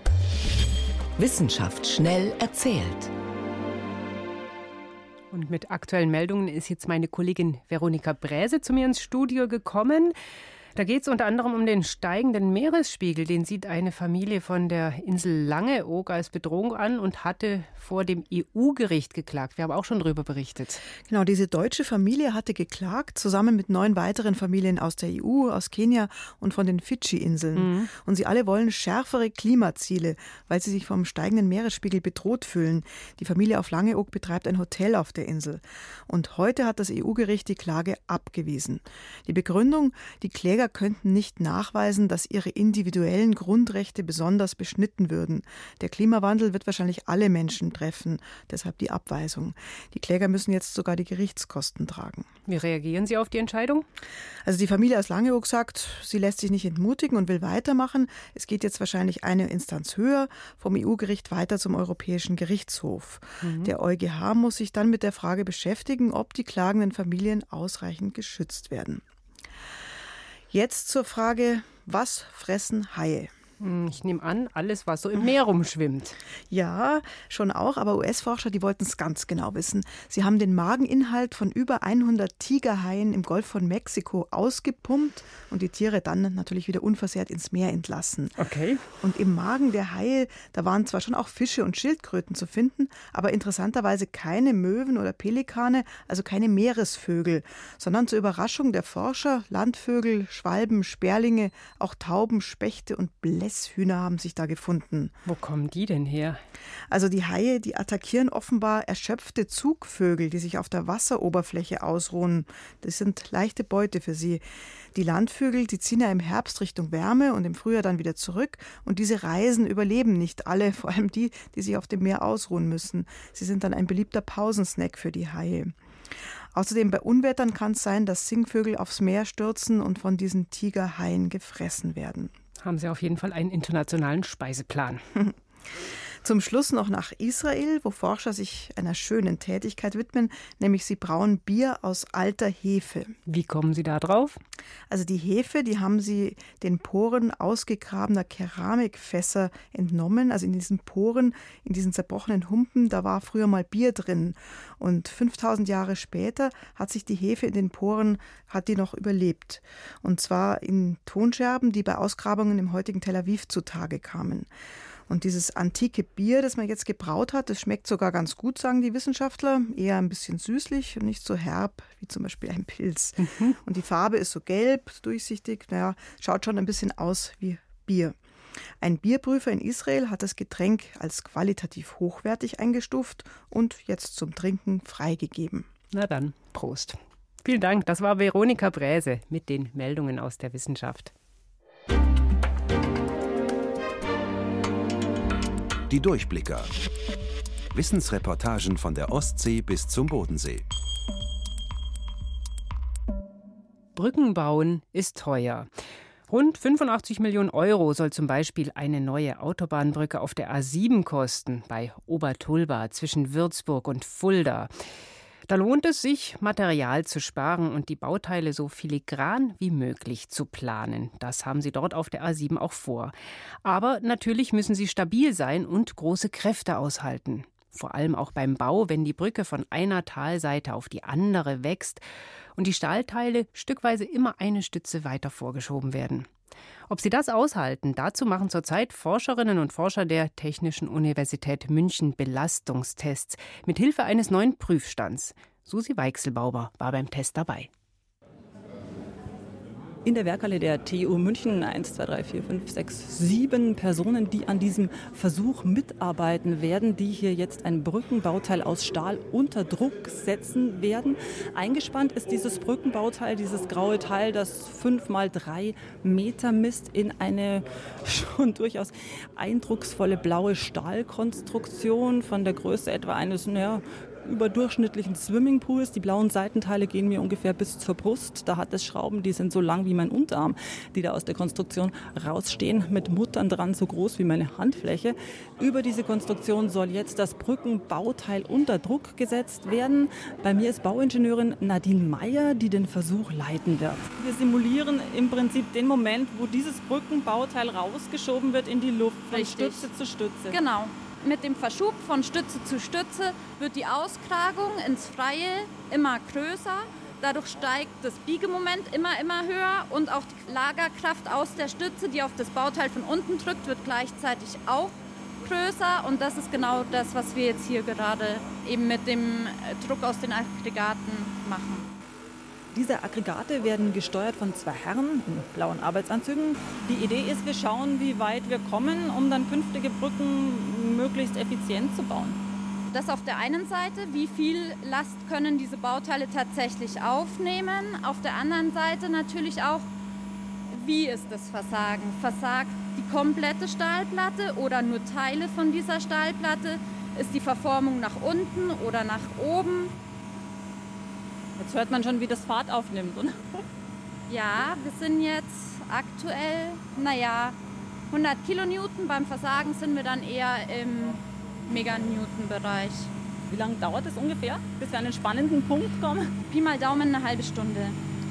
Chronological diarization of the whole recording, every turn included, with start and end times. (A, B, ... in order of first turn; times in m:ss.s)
0:01.2-0:03.1 A
0:05.3-0:10.2 B
0:10.8-0:20.8 B
0:21.0-0:52.3 C
0:27.6-0:27.9 B
0:52.5-0:53.9 B
0:54.4-1:09.0 C
1:03.4-1:03.7 B
1:10.5-1:13.3 C
1:13.6-1:16.2 B
1:16.5-1:28.4 C
1:28.4-1:28.8 B
1:29.0-1:45.1 C
1:45.3-1:46.4 B
1:46.9-1:54.4 C
1:54.9-2:05.8 C
2:06.5-2:12.3 C
2:12.6-2:15.0 B
2:16.2-2:23.2 C
2:23.3-2:24.4 B
2:24.9-2:44.5 C
2:45.1-2:58.2 C
2:53.2-2:53.6 B
2:58.8-3:05.7 C
3:05.9-3:11.1 B
3:15.9-3:16.7 D
3:17.7-3:20.6 D
3:24.0-3:25.7 B
3:26.3-3:34.7 B
3:35.5-3:52.0 B
3:52.6-3:56.3 B
3:56.9-4:07.7 B
4:10.0-5:00.6 E
4:59.3-4:59.9 F
5:00.5-5:21.9 F
5:22.7-5:32.4 E
5:32.9-5:39.9 F
5:40.7-5:50.0 F
5:51.6-5:53.5 E
5:54.3-5:57.6 F
5:58.1-6:03.1 F
6:03.5-6:06.3 E
6:06.5-6:08.0 F